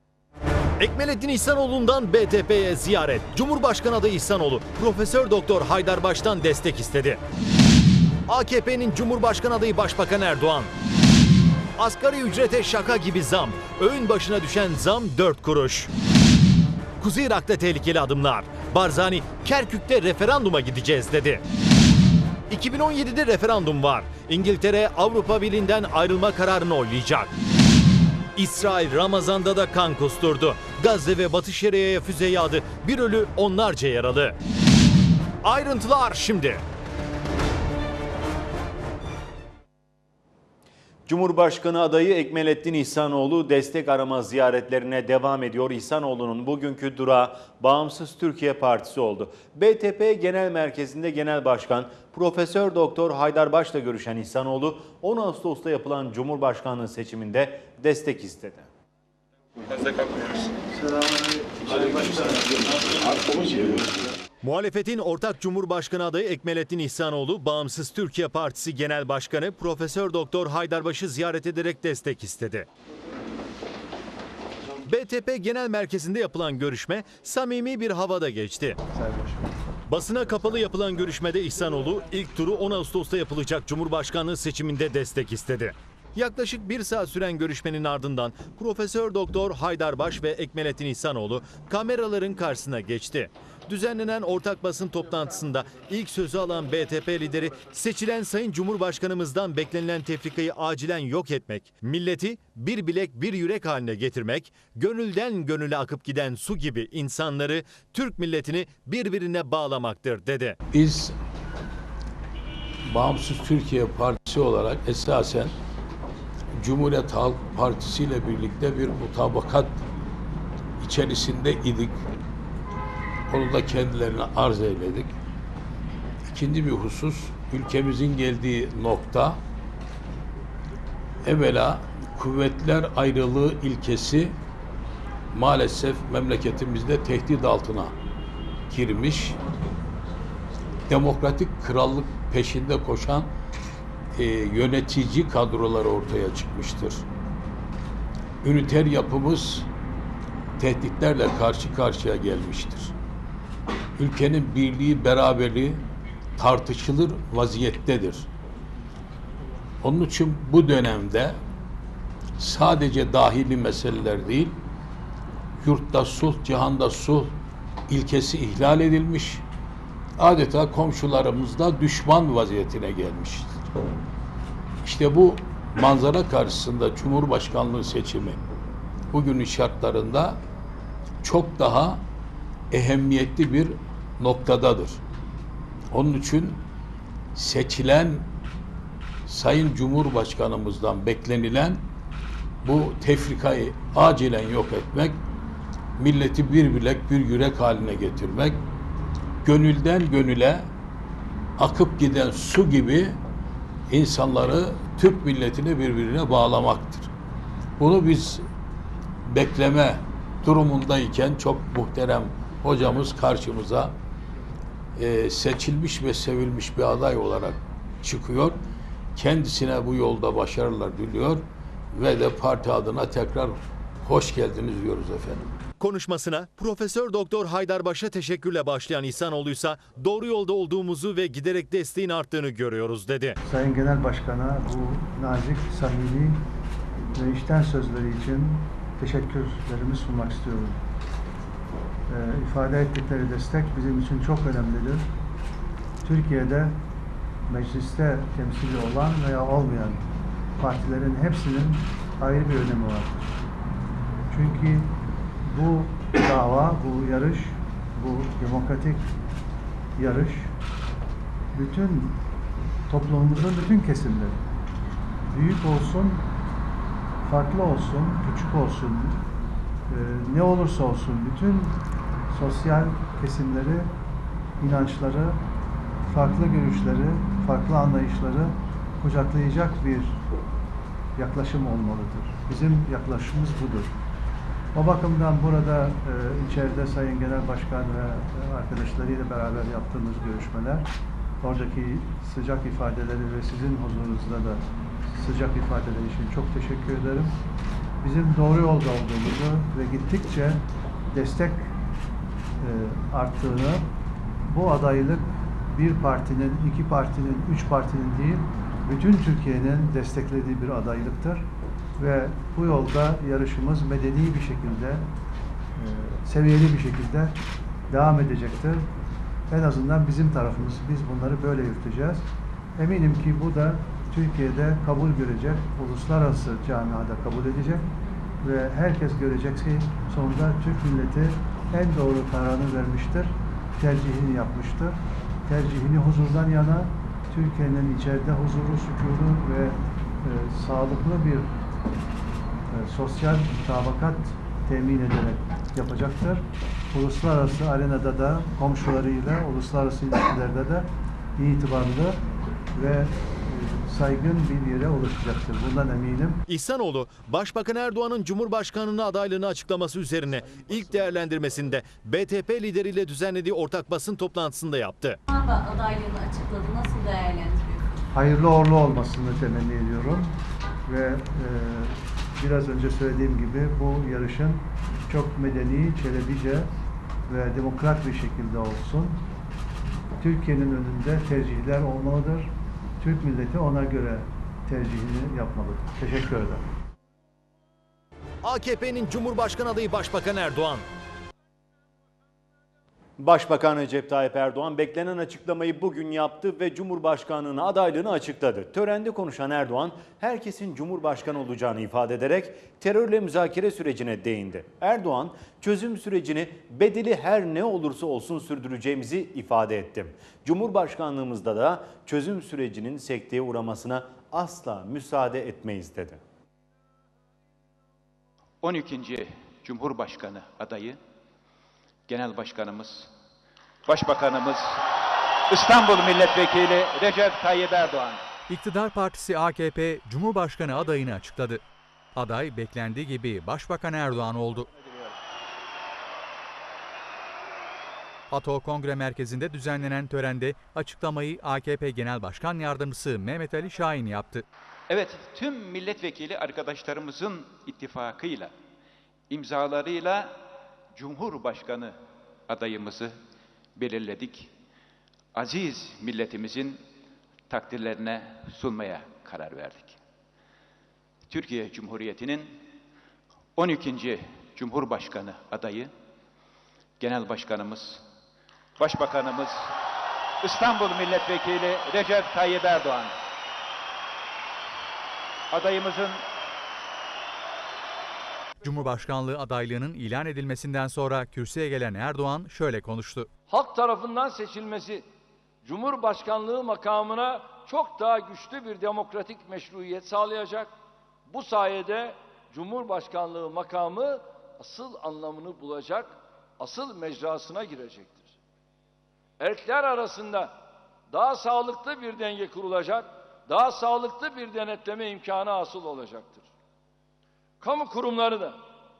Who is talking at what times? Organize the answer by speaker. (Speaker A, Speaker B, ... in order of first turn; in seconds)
Speaker A: 0.8-7.2, 8.3-10.7, 11.8-15.9, 17.0-21.4, 22.5-27.3, 28.4-34.4, 35.4-36.6, 64.4-72.7, 74.8-78.8, 79.9-110.6, 225.8-233.4, 356.5-365.2, 388.4-390.9
Speaker B: 41.1-58.7, 393.2-416.2
Speaker C: 60.8-62.4, 78.9-79.4, 233.4-236.4, 237.1-240.8, 242.1-245.1, 246.0-246.8, 247.5-250.1, 250.6-253.3, 254.3-259.1, 260.0-260.5, 261.5-262.2, 262.9-264.4, 265.3-266.3, 267.2-269.2, 269.9-273.9, 274.6-275.4, 276.1-280.2, 281.2-284.0, 284.7-290.9, 291.4-297.3, 298.0-301.8, 302.6-303.9, 304.5-315.1, 315.8-317.4, 317.9-318.9, 319.5-322.3, 322.8-327.9, 328.4-341.5, 342.7-352.2, 352.8-356.4, 368.1-376.7, 377.3-379.2, 380.2-386.6
Speaker D: 110.7-111.1, 112.9-115.5, 116.6-119.8, 120.8-122.0, 123.3-125.1, 126.3-129.4, 131.2-134.3, 135.3-137.9, 138.7-139.4, 140.9-143.3, 144.2-147.0, 148.4-149.7, 150.6-152.9, 154.0-155.8, 156.4-158.3, 159.8-161.4, 162.4-164.6, 165.6-167.4, 167.9-169.4, 170.2-173.7, 174.8-178.4, 179.1-180.4, 181.2-182.0, 182.7-185.0, 185.9-186.6, 187.3-188.3, 189.3-191.8, 192.6-195.2, 196.0-198.6, 199.4-200.7, 201.6-203.2, 203.9-207.1, 207.8-208.4, 209.2-214.0, 215.0-218.6, 219.2-225.5
Speaker E: 365.3-368.0
Speaker F: 418.6-421.0, 422.1-423.1, 423.9-424.8, 425.5-428.2, 444.9-448.5, 449.3-450.4, 450.9-453.2, 453.8-454.5, 455.3-456.8, 457.5-460.0, 461.3-462.6, 463.6-465.9, 467.0-468.1, 468.8-469.7, 470.4-473.1, 475.5-476.2
Speaker G: 428.5-431.6, 432.2-434.7, 438.3-444.4, 478.6-483.3
Speaker H: 483.5-485.1, 485.6-490.7, 491.3-498.3, 499.4-500.5, 501.1-506.5, 507.6-508.6